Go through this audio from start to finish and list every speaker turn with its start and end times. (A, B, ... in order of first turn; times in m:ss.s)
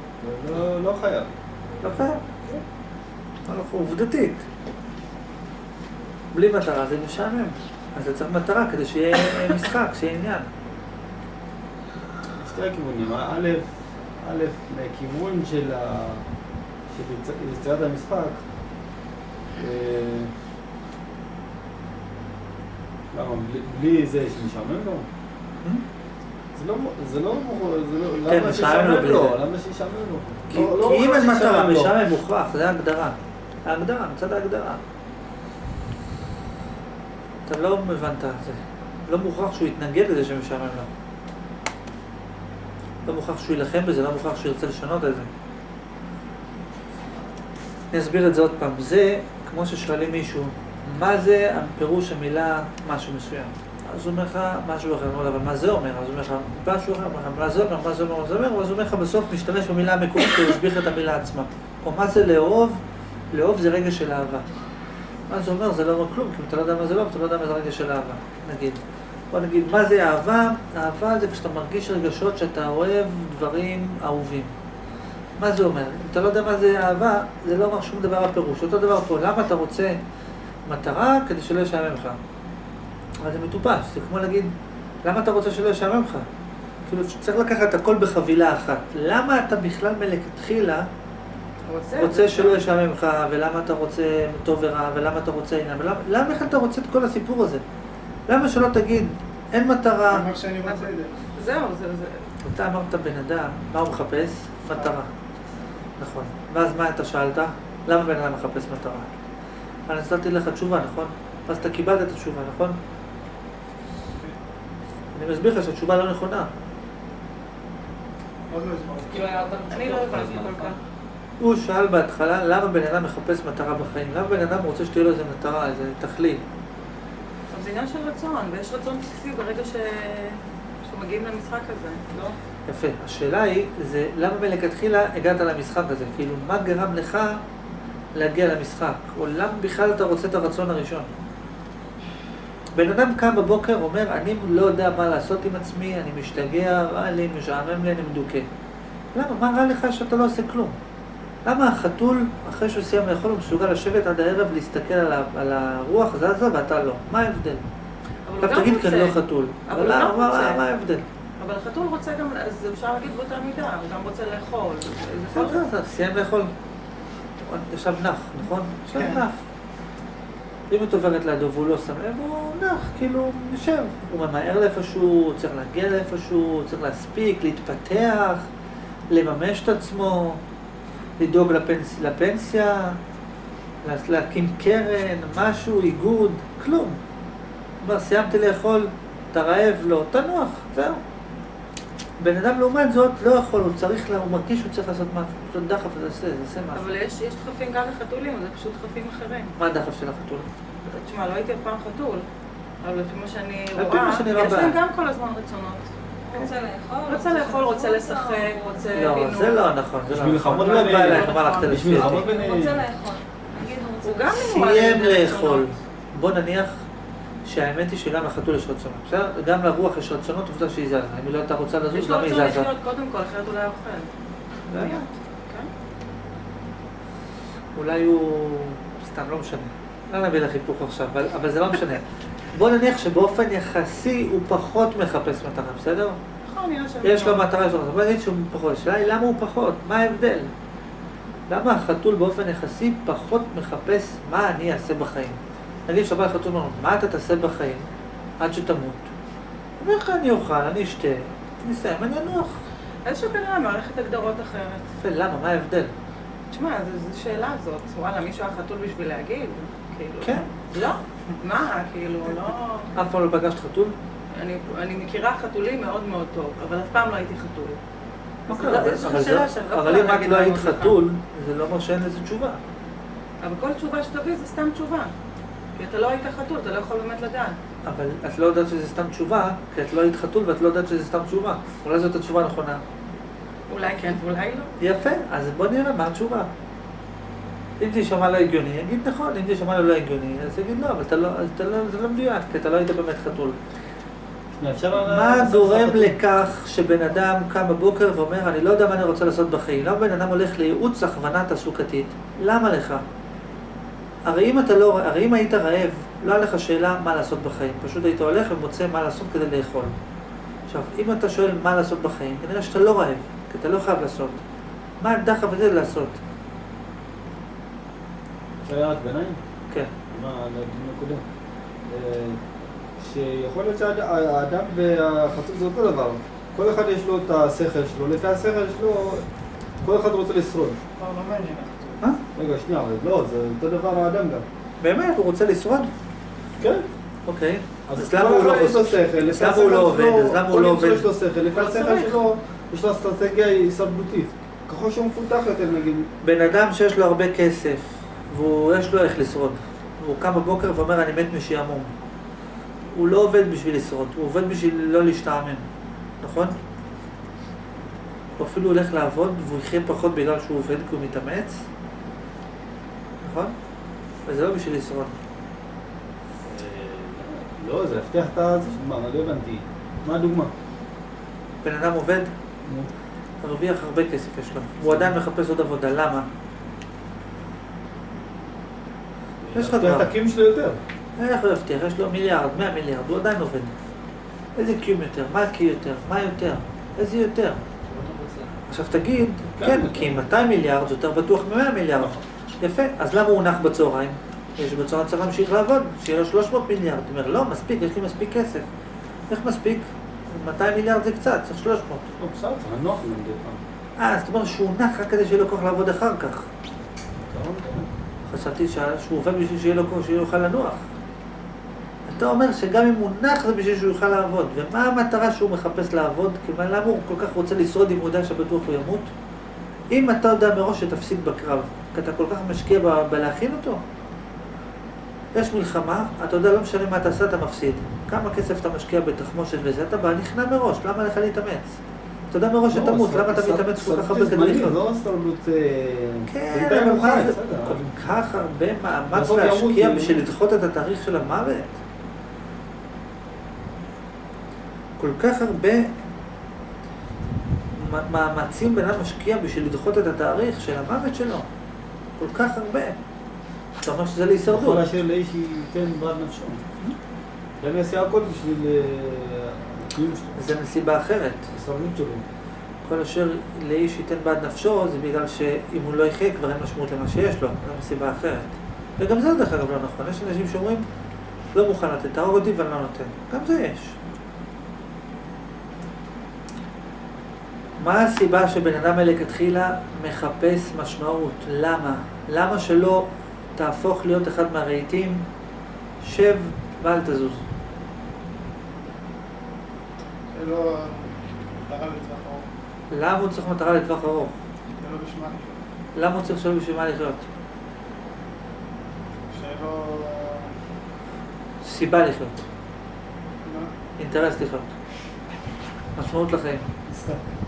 0:00.2-0:01.3 A
0:01.8-0:02.2 B
0:03.4-0:04.4 B
0:06.3-0:10.5 B
0:12.4-0:16.2 A
0:16.9-0:18.4 A
0:19.5-0:20.3 A
0:23.1-0:25.1 A
0:26.5-0:32.0 A
0:28.3-0:29.4 B
0:30.5-0:34.8 B
0:37.5-0:40.9 B
0:43.0-0:45.3 B
0:47.9-1:04.5 B
1:05.3-1:14.5 B
1:15.4-1:20.0 B
1:20.6-1:22.2 B
1:23.2-1:26.3 B
1:26.8-1:30.9 B
1:31.6-1:32.6 C
1:31.9-1:37.6 B
1:38.3-1:40.3 B
1:40.1-1:41.2 D
1:40.6-1:42.2 C
1:42.4-1:45.1 B
1:46.0-1:49.1 B
1:49.9-1:52.8 B
1:55.1-1:56.5 B
1:58.5-1:59.3 D
1:59.1-2:00.7 E
1:59.7-2:00.8 C
2:01.4-2:06.4 B
2:07.5-2:12.3 C
2:12.7-2:17.4 B
2:18.1-2:21.1 B
2:22.7-2:28.5 B
2:29.1-2:30.8 B
2:31.4-2:37.6 B
2:38.2-2:40.6 C
2:38.4-2:41.0 B
2:41.4-2:45.6 C
2:45.3-2:46.5 B
2:47.4-2:49.4 B
2:50.7-2:58.5 B
2:59.1-3:00.4 B
3:01.2-3:03.0 B
3:03.8-3:07.0 B
3:07.8-3:11.0 B
3:12.2-3:16.8 B
3:16.7-3:19.6 C
3:19.6-3:20.5 B
3:20.8-3:22.2 C
3:22.8-3:25.9 C
3:23.8-3:24.8 B
3:26.2-3:28.9 E
3:27.1-3:29.6 C
3:28.9-3:32.2 B
3:30.1-3:32.8 A
3:30.5-3:32.0 C
3:32.0-3:34.4 E
3:34.0-3:35.7 C
3:34.3-3:36.8 B
3:37.4-3:42.7 B
3:41.9-3:44.1 C
3:44.7-3:45.1 B
3:44.7-3:45.7 C
3:47.7-3:56.2 B
3:56.4-3:57.4 C
3:57.0-4:00.5 B
4:01.5-4:07.9 B
4:08.4-4:09.1 B
4:09.8-4:12.6 B
4:13.0-4:14.8 C
4:15.0-4:15.9 B
4:16.5-4:22.9 C
4:20.2-4:20.5 B
4:22.9-4:23.9 B
4:24.3-4:27.8 C
4:28.5-4:30.9 C
4:28.5-4:32.6 B
4:33.4-4:35.1 C
4:35.8-4:37.6 C
4:37.8-4:42.8 B
4:43.7-4:44.7 C
4:44.8-4:46.5 B
4:47.8-4:53.6 B
4:54.6-4:56.2 A
4:55.0-5:03.0 B
5:04.2-5:09.9 B
5:10.7-5:14.4 B
5:15.0-5:16.2 B
5:18.6-5:19.4 A
5:20.1-5:21.2 A
5:21.9-5:22.4 A
5:23.0-5:29.3 A
5:29.8-5:30.8 A
5:31.0-5:32.0 D
5:32.3-5:34.4 A
5:34.8-5:35.9 B
5:36.6-5:36.9 A
5:37.2-5:41.1 B
5:37.9-5:46.1 A
5:41.5-5:42.2 C
5:46.2-5:51.9 B
5:52.9-5:55.6 B
5:56.2-5:56.5 B
5:58.4-6:01.6 B
6:03.2-6:03.5 B
6:04.3-6:05.2 B
6:06.4-6:10.5 A
6:11.6-6:12.3 B
6:12.6-6:12.9 A
6:13.4-6:16.3 B
6:14.8-6:15.1 A
6:19.4-6:20.8 A
6:19.5-6:20.1 B
6:21.2-6:23.7 B
6:24.5-6:27.6 B
6:27.9-6:28.6 A
6:28.7-6:38.6 B
6:29.6-6:30.3 A
6:39.3-6:42.0 B
6:42.2-6:43.6 A
6:44.0-6:46.5 B
6:47.2-6:47.9 A
6:48.3-6:50.9 B
6:52.0-6:59.1 B
6:59.9-7:03.8 B
7:05.3-7:11.8 B
7:12.3-7:14.8 B
7:12.7-7:18.0 A
7:16.3-7:21.8 B
7:19.1-7:20.3 A
7:25.0-7:25.9 B
7:27.7-7:31.5 B
7:32.2-7:33.0 B
7:33.8-7:34.8 B
7:34.4-7:36.6 A
7:37.6-7:40.4 A
7:40.4-7:41.5 B
7:41.5-7:42.3 A
7:42.8-7:50.8 B
7:51.5-7:54.0 B
7:57.8-8:05.2 B
8:06.0-8:07.4 B
8:10.3-8:12.5 D
8:12.9-8:14.3 B
8:14.8-8:15.6 D
8:15.9-8:17.2 B
8:19.3-8:20.6 D
8:21.6-8:22.4 B
8:23.4-8:23.7 D
8:24.0-8:24.7 B
8:25.9-8:26.7 B
8:26.9-8:27.2 A